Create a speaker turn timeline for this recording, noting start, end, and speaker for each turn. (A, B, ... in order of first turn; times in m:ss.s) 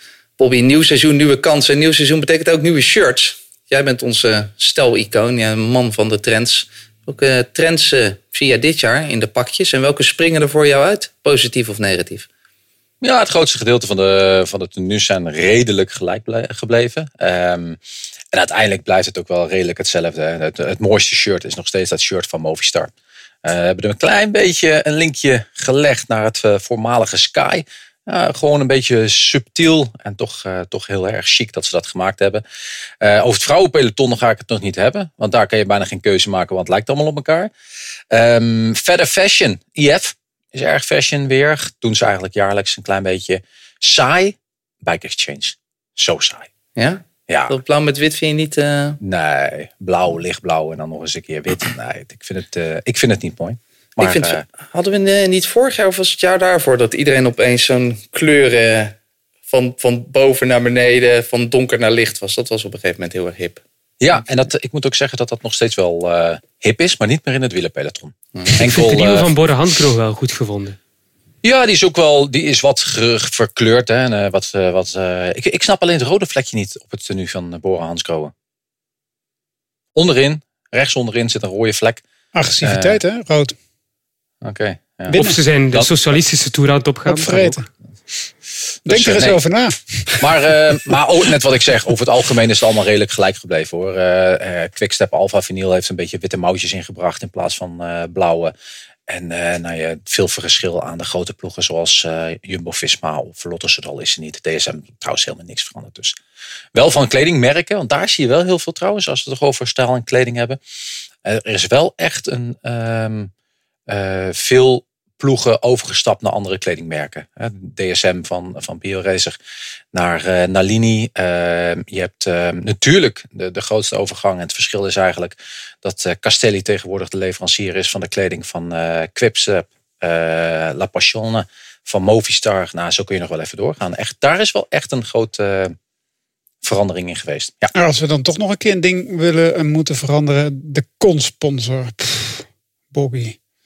0:00.4-0:12.3 A
0:13.0-0:17.8 B
0:18.3-0:22.9 B
0:23.4-0:32.4 B
0:33.0-0:37.5 B
0:38.1-0:46.5 B
0:46.8-0:49.0 A
0:47.3-0:47.6 B
0:49.0-0:54.4 B
0:54.0-0:59.0 A
0:59.5-1:03.6 A
1:04.0-1:09.3 B
1:08.6-1:10.8 C
1:11.4-1:18.3 B
1:20.0-1:22.0 B
1:22.3-1:23.6 D
1:22.6-1:23.0 B
1:24.4-1:25.9 B
1:25.1-1:25.4 D
1:25.1-1:27.6 C
1:27.1-1:27.7 D
1:28.9-1:29.8 D
1:28.9-1:29.4 B
1:30.2-1:38.5 B
1:39.1-1:46.2 B
1:46.7-1:50.6 B
1:51.2-1:53.3 B
1:53.9-1:59.4 B
1:59.9-2:15.8 B
2:16.6-2:17.7 B
2:17.8-2:23.4 D